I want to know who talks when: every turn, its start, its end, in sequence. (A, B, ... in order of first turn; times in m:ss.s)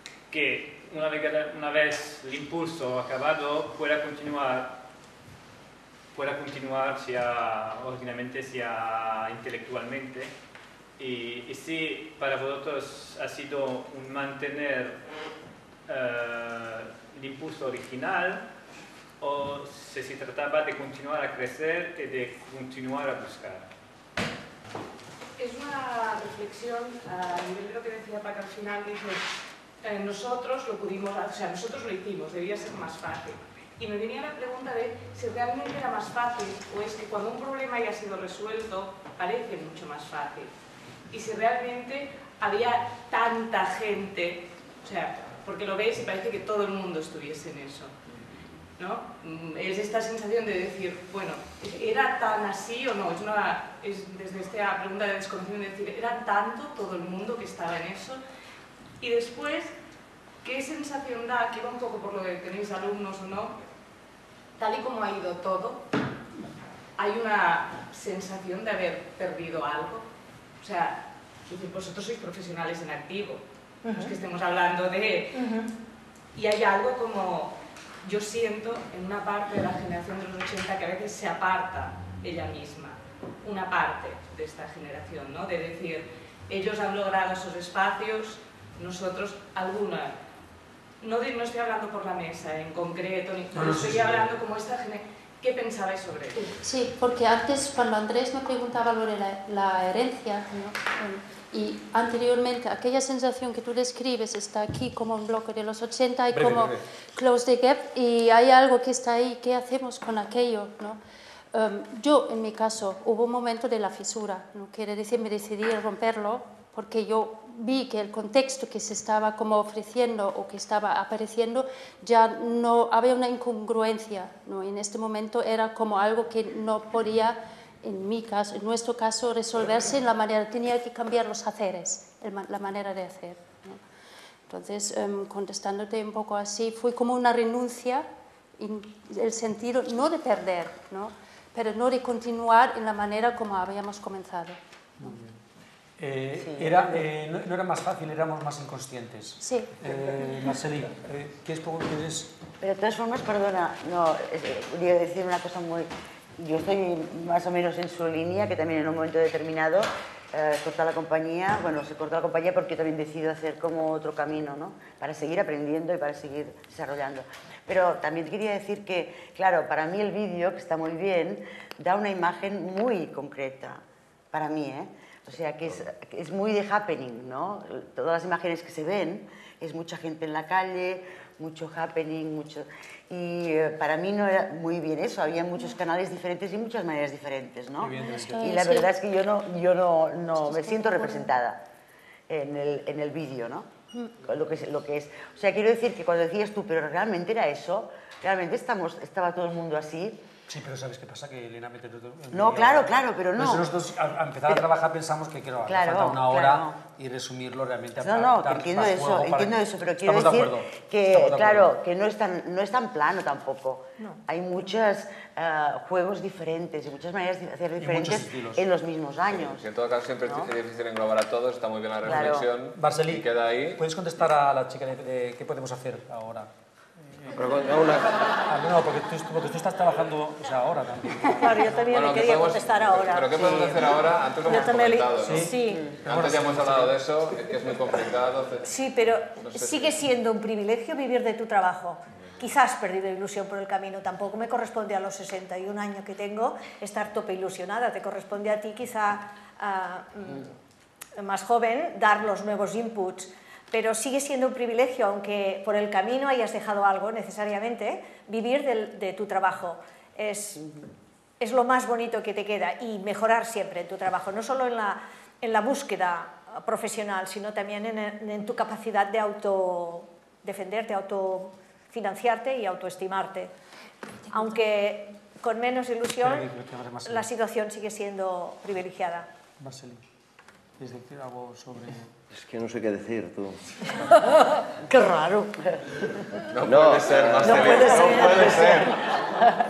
0:00.3-0:04.8 A
0:06.1-0:10.3 A
0:11.0-0:15.0 A
0:15.9-0:18.4 A
0:19.2-0:23.7 A
0:25.4-0:29.2 B
0:29.8-0:40.5 B
0:41.1-0:48.0 B
0:48.8-0:58.2 B
0:59.0-0:59.7 B
1:00.4-1:03.5 B
1:04.6-1:05.8 B
1:07.0-1:10.1 B
1:10.6-1:15.5 B
1:13.8-1:14.1 C
1:15.3-1:15.7 C
1:16.3-1:30.1 B
1:31.0-1:36.5 B
1:33.5-1:34.3 D
1:36.6-1:51.0 E
1:46.3-1:46.7 F
1:51.5-2:13.8 E
2:14.5-2:18.0 E
2:18.6-2:25.1 E
2:26.0-2:32.3 D
2:26.4-2:27.0 G
2:29.4-2:29.7 E
2:32.6-2:53.8 G
2:54.3-3:11.6 G
3:07.8-3:08.4 D
3:07.8-3:08.9 E
3:10.3-3:11.3 E
3:12.3-3:13.7 G
3:14.2-3:20.2 G
3:20.5-3:31.7 D
3:22.3-3:23.6 G
3:25.6-3:26.8 G
3:28.0-3:39.6 G
3:37.8-3:38.6 D
3:39.3-3:43.8 F
3:40.2-3:40.5 G
3:42.0-3:42.5 G
3:42.8-3:46.5 D
3:47.1-3:47.4 D
3:47.3-3:48.1 H
3:48.5-3:51.8 D
3:51.4-3:55.8 C
3:51.9-3:58.7 F
3:55.2-3:57.0 D
3:58.6-4:10.5 C
3:59.4-4:00.0 F
4:11.2-4:20.8 C
4:21.4-4:33.5 C
4:34.3-4:36.5 C
4:36.2-4:37.3 D
4:37.0-4:39.3 C
4:39.6-4:40.0 D
4:40.8-4:42.1 D
4:42.3-4:43.7 H
4:44.9-4:45.5 C
4:46.5-4:48.9 F
4:46.6-4:48.6 H
4:47.4-4:48.9 C